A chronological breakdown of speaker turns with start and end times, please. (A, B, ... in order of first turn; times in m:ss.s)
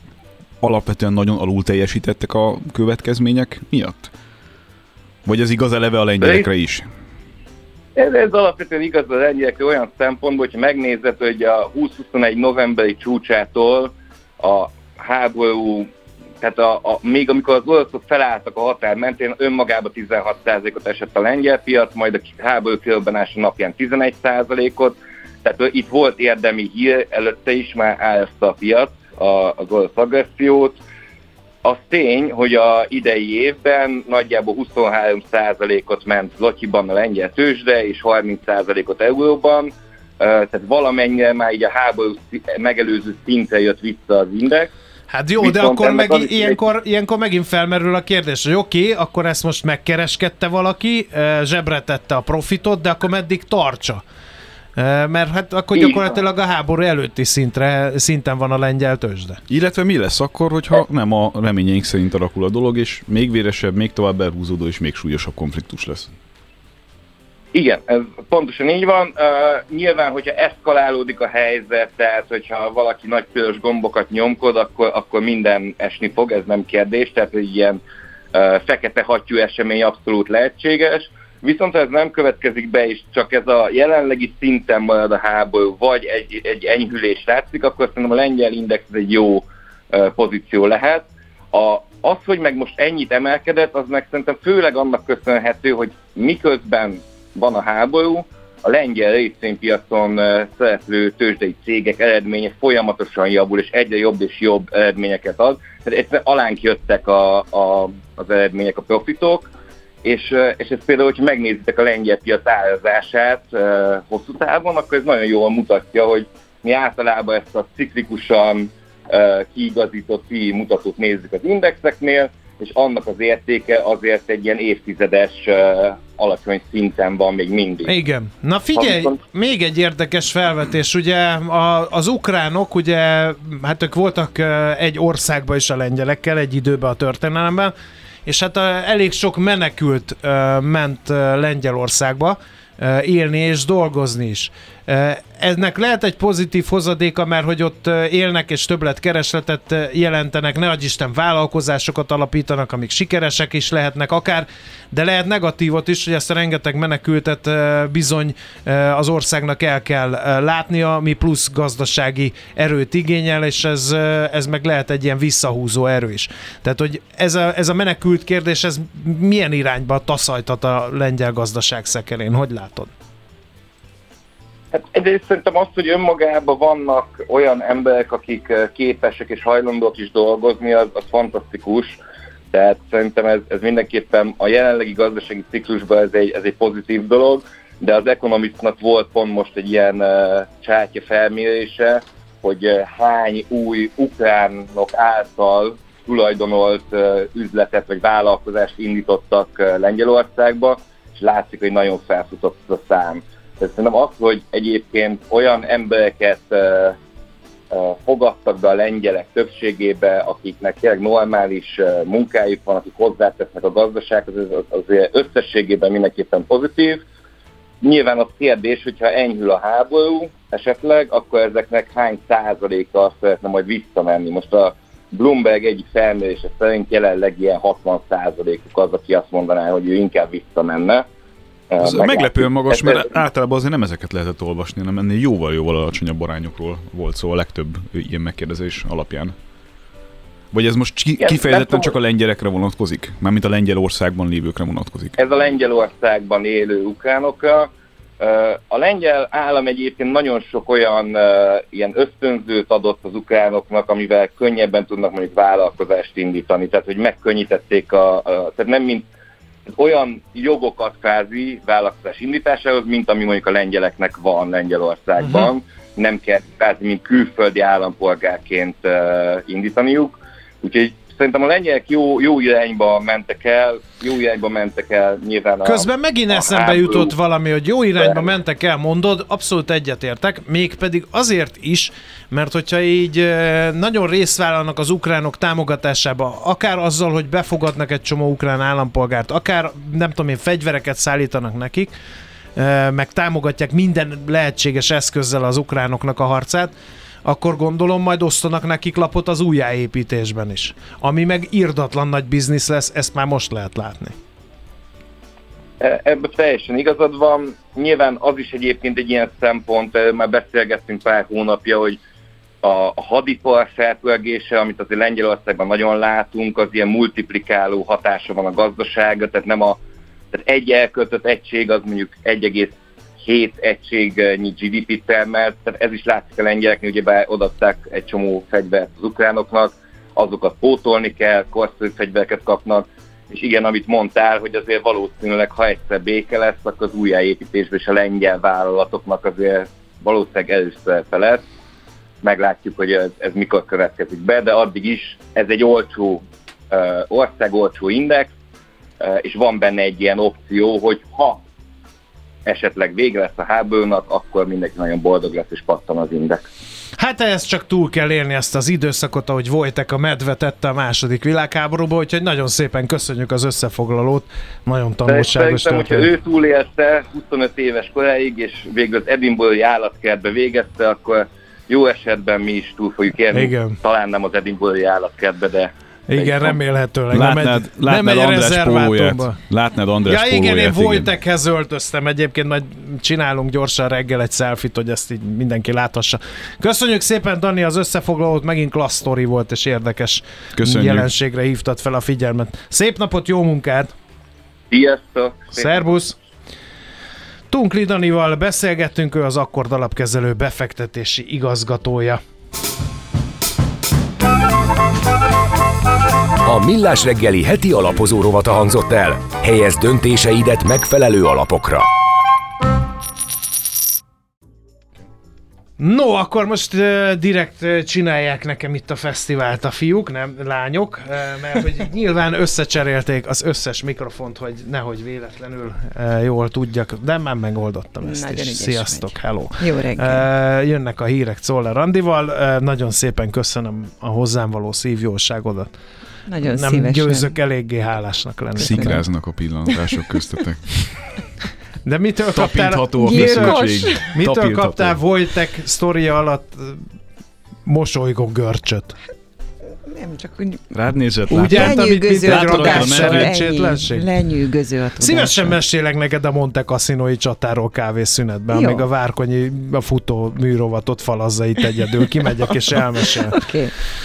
0:00.6-0:04.1 A
0:05.2-0:06.9 A
0:06.2-0:06.5 B
0:08.0-0:15.9 B
0:16.4-0:30.8 B
0:31.6-0:44.7 B
0:45.1-0:54.0 C
0:45.4-0:46.6 B
0:54.8-0:59.4 C
0:55.7-0:56.2 B
0:59.5-1:06.1 A
1:07.5-1:17.8 B
1:18.3-1:49.5 B
1:50.0-2:08.0 B
2:07.8-2:17.7 C
2:08.8-2:09.2 B
2:18.2-2:52.9 C
2:54.7-3:02.0 B
3:02.5-3:27.0 B
3:27.7-3:37.0 B
3:37.8-3:51.0 B
3:51.7-3:53.1 B
3:51.8-3:59.3 A
4:00.5-4:05.2 A
4:01.2-4:01.9 B
4:05.2-4:19.1 B
4:19.8-4:37.1 B
4:35.6-4:51.9 C
4:38.0-4:38.3 B
4:52.6-4:56.7 C
4:57.2-5:04.1 C
5:05.8-5:12.0 B
5:12.6-5:19.8 B
5:20.3-5:41.4 B
5:42.2-5:48.3 B
5:49.0-5:51.4 B
5:52.4-5:56.4 B
5:57.0-6:06.1 C
6:05.0-6:16.6 B
6:13.3-6:13.8 C
6:16.1-6:19.4 C
6:17.1-6:21.1 A
6:20.0-6:33.9 C
6:30.6-6:31.1 A
6:34.7-6:35.9 B
6:35.5-6:36.1 C
6:37.5-6:42.2 C
6:46.4-6:51.9 D
6:55.8-7:15.7 C
7:08.0-7:10.3 E
7:16.2-7:17.3 E
7:16.4-7:19.0 C
7:18.6-7:19.0 E
7:18.6-7:21.0 A
7:19.7-7:20.0 E
7:21.8-7:26.8 C
7:22.3-7:25.0 A
7:23.0-7:24.1 E
7:27.6-7:29.0 C
7:29.8-7:30.6 E
7:30.7-7:33.4 A
7:31.3-7:34.0 C
7:31.3-7:35.6 E
7:35.0-7:43.5 C
7:38.5-7:38.9 E
7:42.7-7:43.7 E